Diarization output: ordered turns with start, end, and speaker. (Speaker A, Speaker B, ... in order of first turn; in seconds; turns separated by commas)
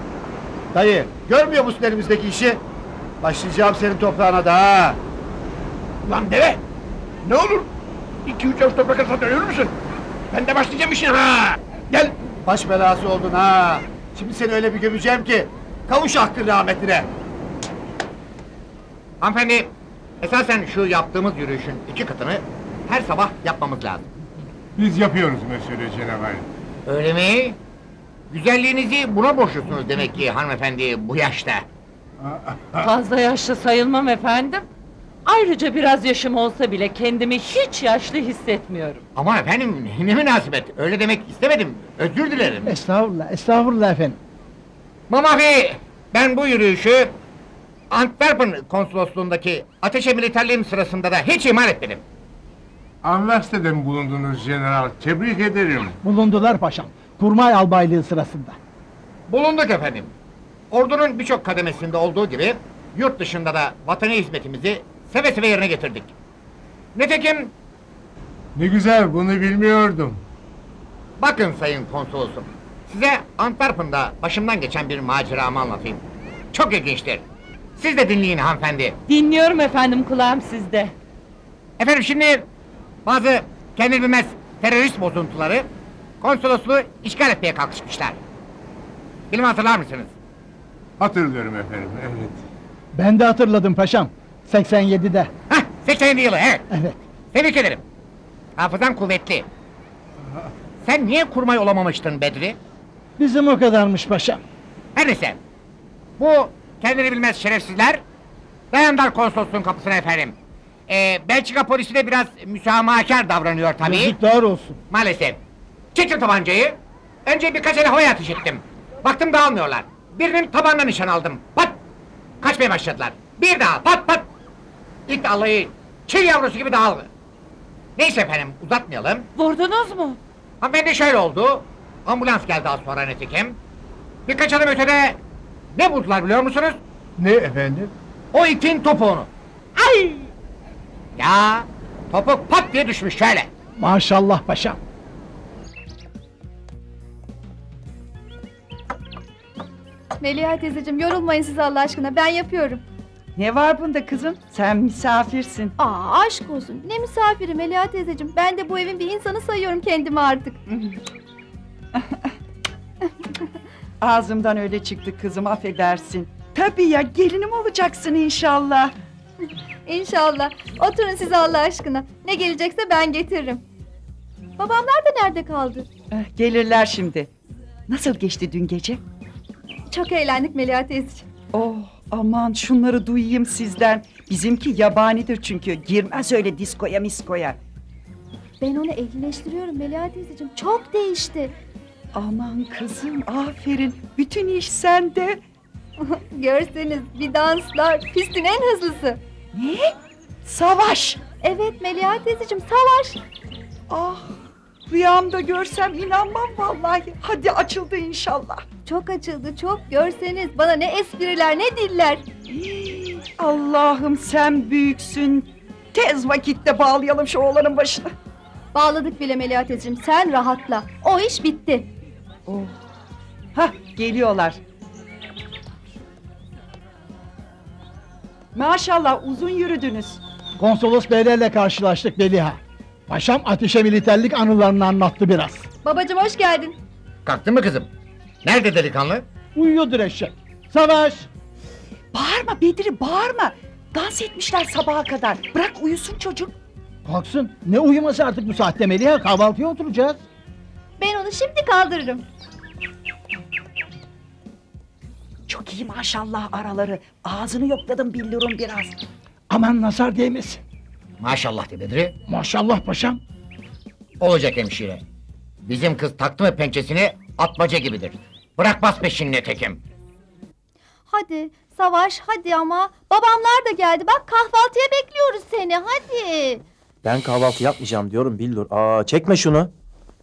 Speaker A: 0.8-2.6, Speaker A: 3.2-5.0, Speaker B: 6.1-6.6, Speaker B: 7.2-7.7, Speaker B: 8.2-9.7, Speaker B: 10.3-12.1, Speaker A: 12.4-17.1, Speaker C: 19.2-19.7, Speaker C: 20.2-24.1, Speaker D: 24.8-26.5, Speaker C: 26.9-27.6, Speaker C: 28.3-31.6, Speaker D: 32.2-32.9, Speaker E: 32.8-34.6, Speaker E: 35.2-39.0, Speaker C: 39.1-42.7, Speaker F: 42.6-44.1, Speaker C: 45.1-47.1, Speaker C: 47.9-52.0, Speaker D: 53.0-56.0, Speaker F: 56.0-58.6, Speaker C: 59.3-60.1, Speaker C: 60.7-66.1, Speaker C: 66.9-67.5, Speaker D: 68.5-70.2, Speaker C: 71.2-77.2, Speaker C: 77.8-79.0, Speaker E: 79.1-80.9, Speaker C: 81.8-82.5, Speaker C: 83.0-85.7, Speaker C: 86.2-88.2, Speaker C: 89.3-90.1, Speaker D: 91.0-92.4, Speaker F: 92.9-95.3, Speaker C: 95.5-96.6, Speaker F: 96.7-97.0, Speaker C: 97.3-97.8, Speaker C: 98.6-99.5, Speaker C: 100.8-102.6, Speaker F: 103.2-104.4, Speaker C: 105.0-105.4, Speaker C: 106.2-108.0, Speaker C: 108.7-110.3, Speaker C: 110.9-114.2, Speaker F: 113.8-114.8, Speaker C: 114.9-115.4, Speaker C: 115.9-121.8, Speaker C: 122.4-124.3, Speaker C: 125.1-127.1, Speaker C: 128.0-129.2, Speaker E: 129.4-130.2, Speaker C: 130.6-133.6, Speaker C: 134.3-135.2, Speaker C: 135.7-136.8, Speaker D: 137.2-137.9, Speaker C: 138.3-139.3, Speaker C: 139.8-140.2, Speaker C: 141.2-143.5, Speaker F: 143.8-144.8, Speaker G: 150.2-152.8, Speaker H: 153.3-155.7, Speaker G: 155.8-160.6, Speaker H: 164.0-168.9, Speaker G: 169.8-173.6, Speaker G: 174.6-175.9, Speaker H: 176.1-177.3, Speaker H: 177.9-179.0, Speaker G: 179.9-181.2, Speaker H: 181.5-187.6, Speaker G: 188.6-191.5, Speaker H: 192.1-195.4, Speaker G: 196.0-199.2, Speaker H: 199.5-201.2, Speaker G: 201.4-203.2, Speaker H: 203.9-208.6, Speaker G: 208.8-212.2, Speaker H: 212.5-218.1, Speaker G: 218.7-221.9, Speaker H: 222.5-222.7, Speaker H: 223.5-224.6, Speaker H: 228.5-230.2, Speaker F: 230.6-235.6, Speaker G: 235.8-236.8, Speaker C: 237.2-237.9, Speaker C: 238.4-239.2, Speaker F: 239.5-241.3, Speaker H: 242.1-246.5, Speaker F: 247.0-250.2, Speaker G: 251.0-252.2, Speaker H: 255.5-259.0, Speaker F: 259.5-260.6, Speaker C: 261.2-262.1, Speaker F: 262.3-263.2, Speaker C: 264.2-265.0, Speaker C: 265.6-269.8, Speaker G: 271.1-276.6, Speaker I: 277.0-279.7